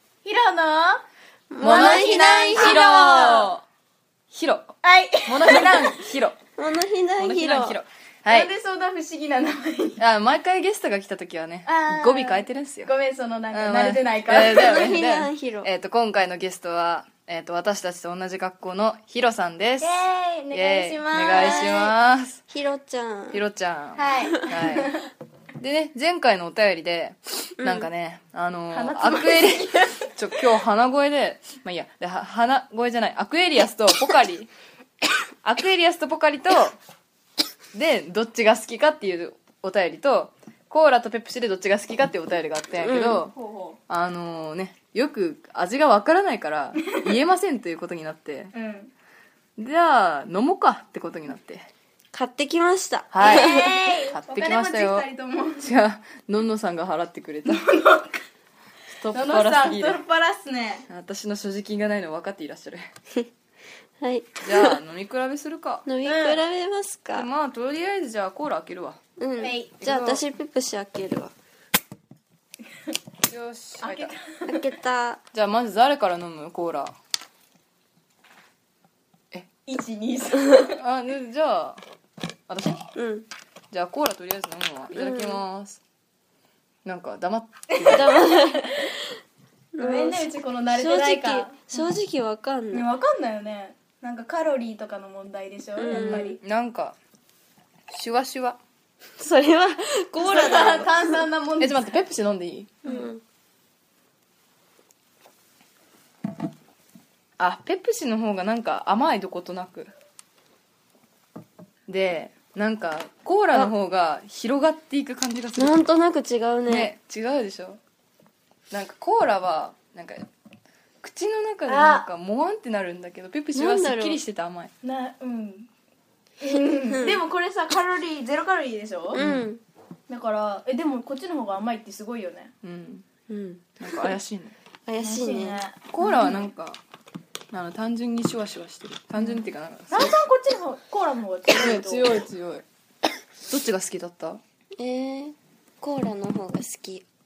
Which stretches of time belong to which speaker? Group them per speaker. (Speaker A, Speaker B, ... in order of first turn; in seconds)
Speaker A: 0.2-1.0, 1.6-3.5, 4.8-6.1, 8.3-10.0, 11.7-14.9, 19.8-21.9, 23.9-25.1, 28.7-30.1, 43.3-43.8, 46.8-47.1, 48.5-48.9, 53.2-55.7, 57.5-58.2, 59.1-60.9, 66.0-66.4, 69.4-69.7, 73.8-74.6, 79.7-80.8, 87.7-88.9, 89.8-91.9, 92.7-96.4, 100.2-102.0, 121.7-122.0, 124.8-125.7, 126.4-129.2, 130.1-132.5, 135.0-136.4, 139.9-142.2
Speaker B: 1.5-3.4, 6.6-7.8, 14.5-15.7, 22.5-23.4, 27.6-27.9, 42.8-43.2, 52.1-54.0, 64.0-64.8, 65.8-67.3, 69.2-71.3, 74.5-75.2, 82.9-83.3, 84.9-85.4, 87.9-89.1, 89.7-92.8, 95.8-96.3, 99.2-101.2, 102.8-103.2, 115.6-116.9, 123.5-124.2, 126.9-127.2, 129.1-129.6, 133.3-134.1, 134.8-135.6, 144.8-147.0
Speaker C: 1.6-3.6, 4.3-4.7, 5.2-6.4, 7.2-8.5, 10.0-12.9, 13.5-22.4, 23.3-25.0, 25.6-34.5, 35.4-36.8, 37.7-43.3, 43.9-48.5, 49.6-51.6, 53.1-55.1, 55.6-57.6, 58.9-60.0, 60.9-62.9, 64.4-65.8, 67.1-69.0, 69.8-70.2, 73.3-74.1, 75.3-76.9, 80.6-81.8, 82.5-82.8, 83.7-85.8, 86.8-88.2, 95.9-97.0, 97.9-98.6, 101.6-102.8, 107.4-109.9, 111.9-115.8, 116.7-117.8, 118.7-120.2, 121.0-124.7, 129.2-129.5, 132.6-133.0, 133.8-134.6, 135.9-136.8, 137.5-140.2, 141.5-142.6, 143.5-144.4